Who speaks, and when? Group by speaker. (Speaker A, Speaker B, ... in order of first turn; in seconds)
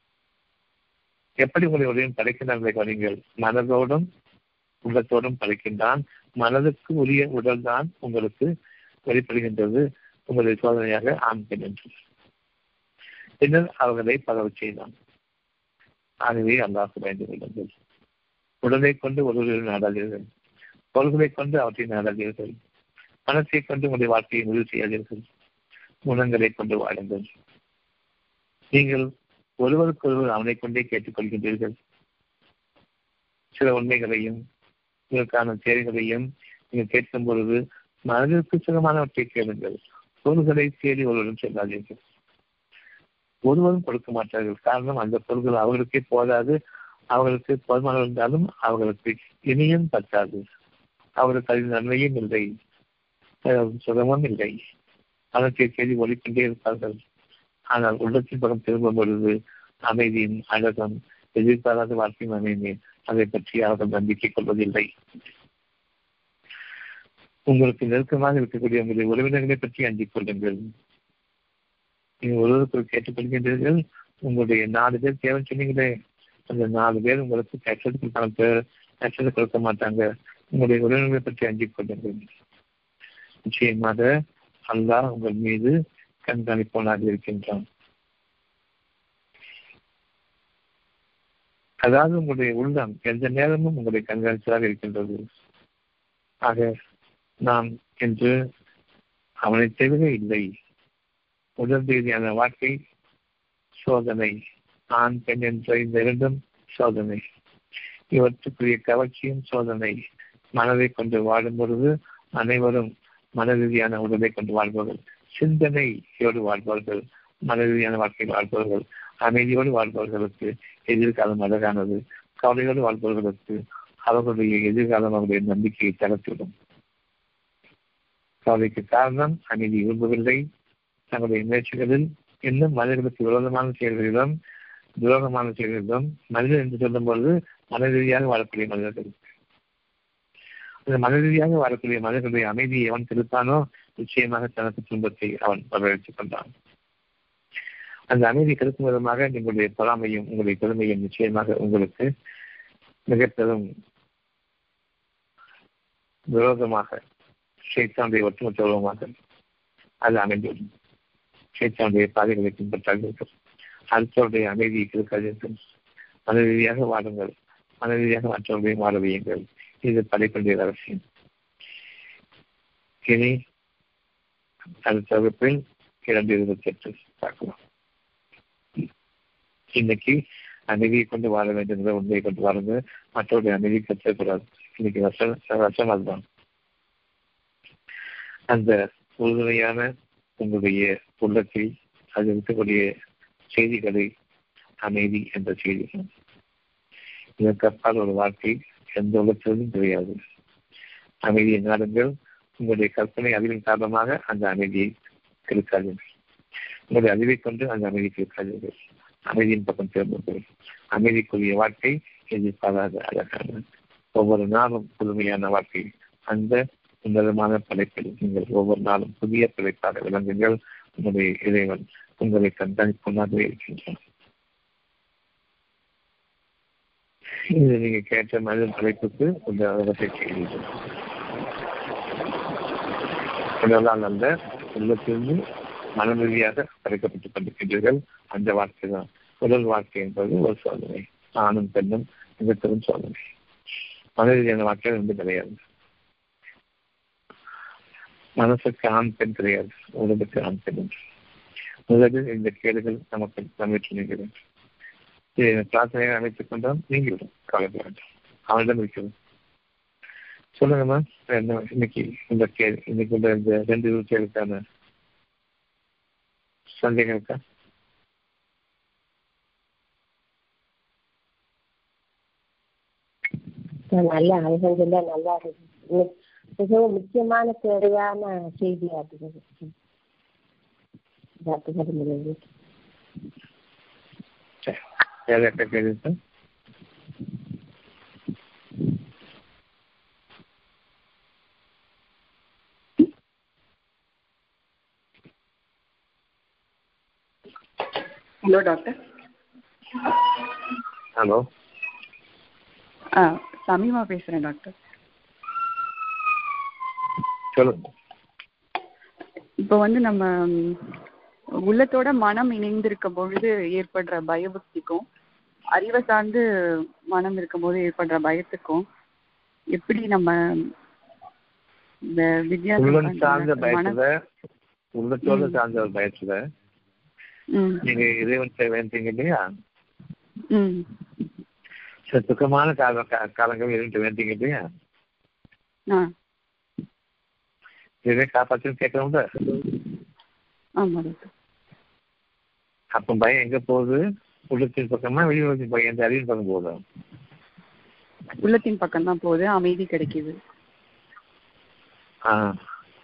Speaker A: 1.4-4.1, 4.8-8.5, 9.1-11.9, 13.4-14.9, 16.2-17.7, 18.6-20.3, 20.9-22.6, 23.3-25.3, 26.1-27.3, 28.7-29.1, 29.6-31.8, 33.5-34.4, 35.1-42.0, 43.5-46.6, 47.1-50.4, 51.2-52.5, 53.5-54.6, 55.4-57.0, 57.7-59.4, 59.9-64.9, 67.5-70.7, 72.2-75.9, 76.5-82.3, 83.5-84.1, 84.7-87.7, 91.8-95.2, 96.4-96.7, 97.4-98.4, 99.4-100.5, 101.6-102.8, 103.8-104.4, 104.9-107.2, 108.1-110.0, 110.6-126.5, 128.5-130.4, 131.1-134.3, 135.0-139.2, 140.9-146.5, 148.1-152.1, 153.1-153.7, 156.3-157.0, 157.7-159.1, 160.0-160.7, 161.6-163.3, 163.9-165.6, 166.3-171.0, 173.1-173.4, 174.8-177.6, 179.8-186.2, 188.5-192.9, 193.5-194.1, 194.8-196.1, 197.4-200.2, 201.3-204.9, 205.5-206.0, 206.9-213.6, 214.2-224.0, 227.5-230.7, 233.6-235.4, 235.9-243.2, 244.2-245.6, 248.4-250.9, 251.9-254.3, 255.4-259.1, 260.6-264.6, 266.7-267.4, 284.6-286.2, 301.1-301.5, 307.5-307.9, 322.8-324.2, 324.9-326.4, 327.8-329.4, 332.1-334.6, 338.1-339.3, 342.9-346.8, 352.3-352.6
Speaker B: 273.9-279.7, 281.4-282.4
Speaker C: 298.4-299.0, 300.0-300.4, 303.1-304.7, 309.6-310.9, 311.6-315.1, 315.7-316.4, 317.1-318.8, 319.7-320.7, 322.1-324.0, 325.3-325.6, 327.5-327.9, 330.5-331.0, 340.8-341.3, 348.4-350.4